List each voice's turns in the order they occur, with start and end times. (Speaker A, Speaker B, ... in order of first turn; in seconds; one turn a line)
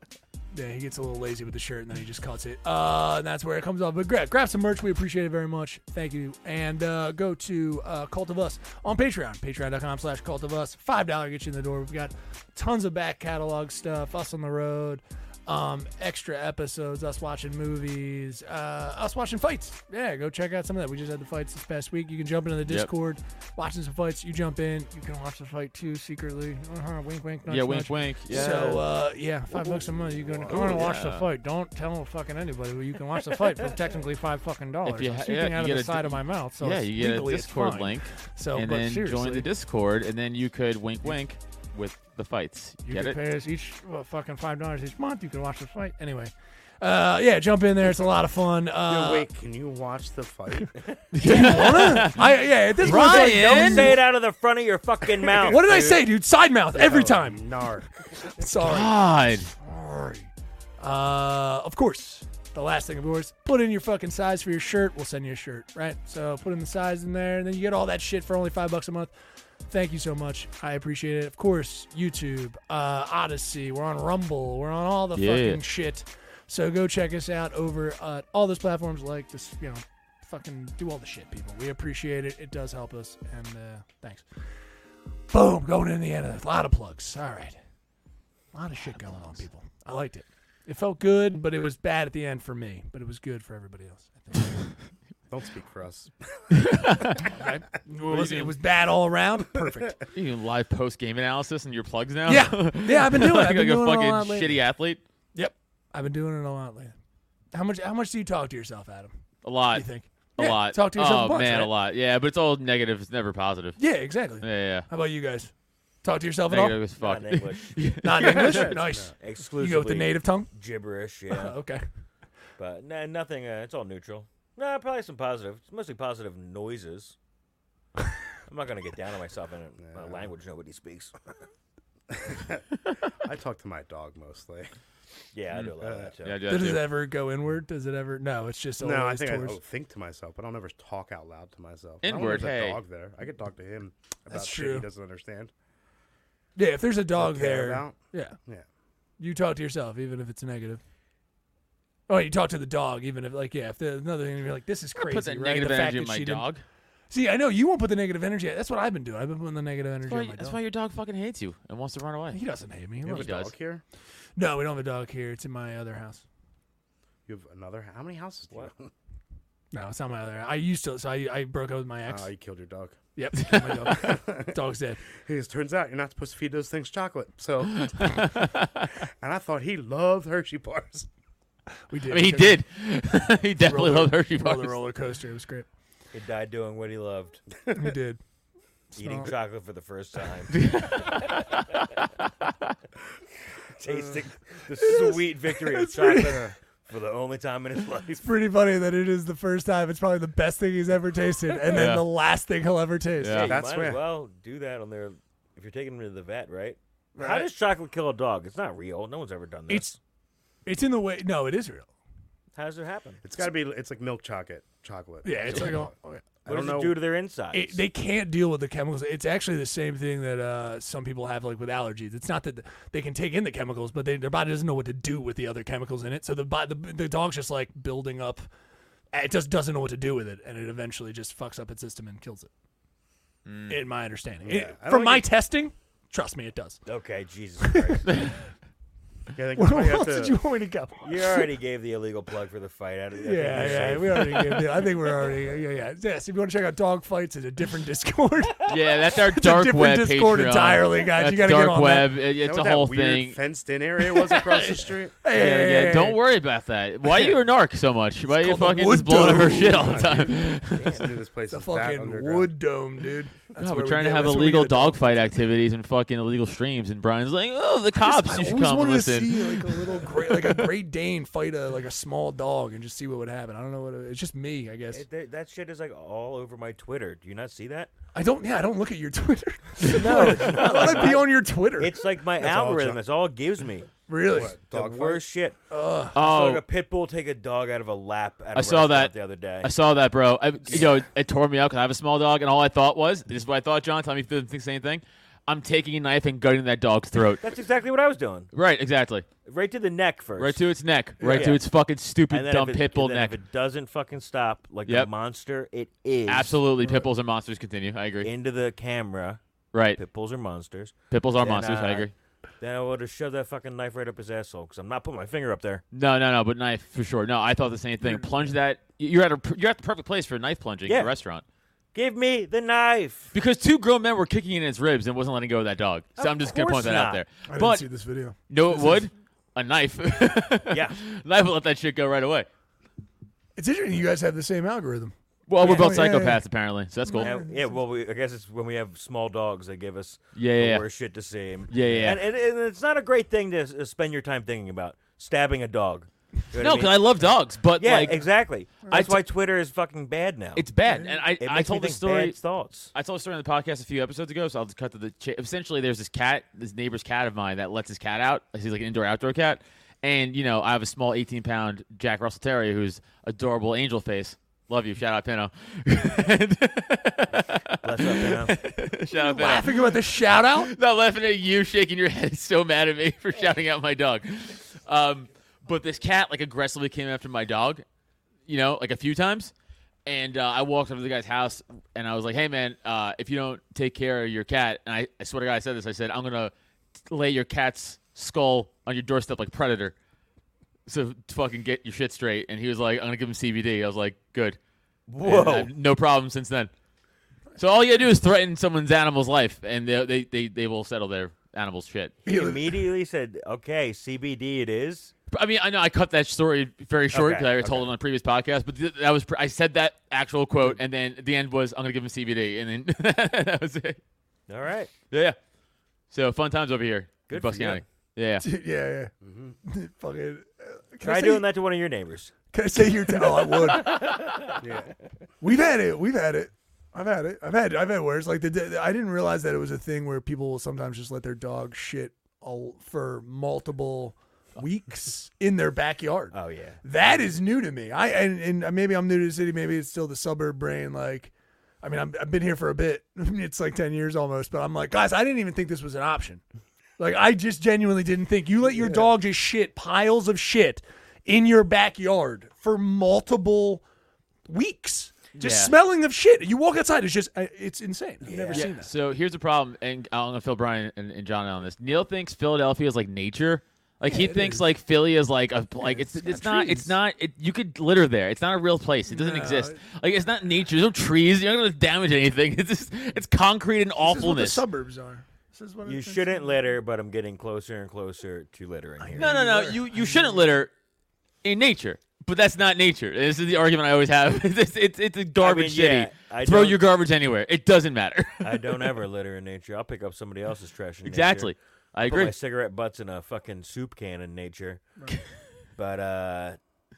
Speaker A: 0.5-39.5
Speaker B: 22.6-22.9
Speaker B: 27.5-28.8
Speaker C: 28.4-28.8
Speaker C: 29.5-30.9
Speaker B: 30.5-31.3
Speaker B: 34.9-43.2
Speaker A: 42.9-49.3
Speaker C: 48.9-50.8
Speaker B: 51.1-52.2
Speaker A: 51.2-54.0
Speaker B: 52.8-54.0
Speaker D: 52.9-56.0
Speaker A: 55.4-57.4
Speaker C: 56.7-58.2
Speaker A: 58.2-69.1
Speaker B: 58.6-59.5
Speaker A: 69.7-84.5
Speaker B: 75.1-75.6
Speaker A: 85.3-87.6
Speaker A: 88.5-94.6
Speaker C: 95.3-96.8
Speaker B: 96.6-97.3
Speaker A: 97.3-100.0
Speaker B: 98.1-98.5
Speaker B: 100.1-105.0
Speaker A: 102.3-104.6
Speaker A: 105.3-107.0
Speaker A: 107.5-109.1
Speaker B: 109.4-113.9
Speaker A: 109.7-111.7
Speaker A: 113.8-115.5
Speaker B: 114.4-114.9
Speaker A: 116.0-116.8
Speaker B: 116.5-118.7
Speaker D: 117.0-117.8
Speaker A: 117.9-120.5
Speaker C: 118.4-119.1
Speaker D: 119.2-121.6
Speaker A: 121.3-121.8
Speaker D: 122.6-127.2
Speaker D: 128.5-131.1
Speaker C: 129.8-130.3
Speaker C: 132.1-134.7
Speaker D: 135.3-136.4
Speaker C: 135.8-136.1
Speaker B: 136.2-136.9
Speaker A: 136.5-139.6
Speaker C: 138.8-145.5
Speaker B: 142.0-142.8
Speaker A: 144.3-144.9
Speaker A: 146.6-148.4
Speaker C: 147.2-148.7
Speaker A: 149.2-150.8
Speaker A: 152.1-156.5
Speaker B: 154.9-156.6
Speaker A: 157.1-160.6
Speaker B: 160.1-162.4
Speaker A: 162.3-163.3
Speaker C: 163.1-163.8
Speaker B: 163.1-163.5
Speaker A: 164.4-166.2
Speaker C: 167.3-168.9
Speaker A: 169.7-172.3
Speaker C: 172.1-173.0
Speaker A: 173.2-175.0
Speaker C: 173.7-174.6
Speaker C: 175.2-178.5
Speaker B: 177.9-178.7
Speaker C: 179.2-181.1
Speaker A: 181.9-182.6
Speaker B: 182.1-184.8
Speaker A: 183.6-185.7
Speaker D: 186.1-187.4
Speaker A: 187.7-188.2
Speaker A: 188.9-189.3
Speaker D: 188.9-191.2
Speaker B: 190.5-192.0
Speaker D: 193.8-198.3
Speaker C: 193.9-194.2
Speaker A: 194.8-196.5
Speaker A: 198.2-203.6
Speaker B: 201.7-202.1
Speaker B: 203.2-203.6
Speaker D: 203.2-209.9
Speaker C: 203.4-204.1
Speaker A: 207.2-207.5
Speaker A: 209.7-210.0
Speaker A: 210.6-211.9
Speaker D: 212.5-213.2
Speaker C: 213.2-217.1
Speaker A: 215.2-216.2
Speaker D: 216.4-217.8
Speaker A: 217.5-228.5
Speaker A: 229.1-232.5
Speaker B: 233.4-233.8
Speaker A: 233.7-236.8
Speaker C: 234.4-235.3
Speaker D: 236.9-238.3
Speaker A: 237.6-238.1
Speaker C: 239.3-240.4
Speaker A: 239.6-241.4
Speaker D: 241.0-245.3
Speaker A: 243.2-252.1
Speaker C: 243.5-244.0
Speaker B: 248.7-253.4
Speaker C: 252.4-255.2
Speaker A: 254.2-256.2
Speaker B: 255.3-261.0
Speaker A: 258.3-260.0
Speaker C: 259.3-262.5
Speaker A: 261.5-265.2
Speaker B: 263.6-270.7
Speaker A: 268.0-275.0
Speaker D: 274.9-277.9
Speaker A: 278.1-281.9
Speaker D: 279.8-285.6
Speaker B: 280.2-281.0
Speaker C: 282.4-283.0
Speaker A: 284.1-284.6
Speaker C: 284.3-285.2
Speaker A: 285.7-286.2
Speaker B: 286.1-286.6
Speaker D: 286.1-289.7
Speaker B: 288.6-297.5
Speaker D: 290.7-291.0
Speaker D: 297.4-298.5
Speaker B: 298.5-299.3
Speaker D: 299.4-300.7
Speaker B: 300.4-303.4
Speaker A: 301.2-301.6
Speaker D: 301.2-301.6
Speaker D: 302.3-306.6
Speaker B: 304.9-305.1
Speaker B: 306.3-308.3
Speaker D: 308.2-315.8
Speaker B: 309.7-310.0
Speaker B: 311.1-312.1
Speaker B: 315.9-321.4
Speaker A: 318.0-318.3
Speaker D: 320.9-321.1
Speaker D: 321.9-323.3
Speaker B: 323.3-327.9
Speaker D: 326.2-327.2
Speaker A: 327.5-329.0
Speaker B: 328.5-332.5
Speaker D: 330.7-331.0
Speaker A: 333.6-336.4
Speaker B: 335.5-337.4
Speaker A: 337.1-337.7
Speaker D: 337.2-350.7
Speaker B: 340.4-340.9
Speaker B: 341.7-342.2
Speaker B: 346.6-349.2
Speaker A: 348.9-349.1
Speaker B: 350.6-352.4
Speaker A: 350.9-351.2
Speaker D: 351.4-352.9
Speaker B: 352.9-377.8
Speaker D: 367.8-368.6
Speaker A: 369.1-370.7
Speaker B: 378.4-379.5
Speaker B: 380.1-386.5
Speaker B: 387.1-389.9
Speaker B: 390.9-394.6
Speaker D: 395.1-395.7
Speaker B: 395.2-396.7
Speaker B: 397.6-402.2
Speaker D: 402.2-405.1
Speaker A: 402.3-402.8
Speaker B: 405.3-414.0
Speaker D: 407.1-407.9
Speaker D: 414.5-414.9
Speaker B: 415.1-415.4
Speaker B: 416.1-418.4
Speaker D: 417.3-417.8
Speaker A: 418.4-419.1
Speaker C: 419.2-419.6
Speaker A: 419.6-421.5
Speaker D: 421.0-422.3
Speaker A: 422.5-424.3
Speaker D: 423.6-424.3
Speaker C: 424.6-424.9
Speaker A: 425.4-446.4
Speaker D: 436.3-437.2
Speaker A: 447.0-453.8
Speaker A: 454.5-458.9
Speaker B: 455.4-455.7
Speaker D: 458.2-458.7
Speaker B: 458.6-474.6
Speaker A: 464.0-464.7
Speaker A: 465.8-466.9
Speaker A: 469.1-469.8
Speaker A: 474.0-476.6
Speaker D: 475.9-479.4
Speaker A: 479.0-480.6
Speaker B: 479.2-480.7
Speaker B: 481.4-488.9
Speaker D: 485.4-486.9
Speaker D: 488.4-494.9
Speaker B: 491.1-492.4
Speaker D: 495.8-496.6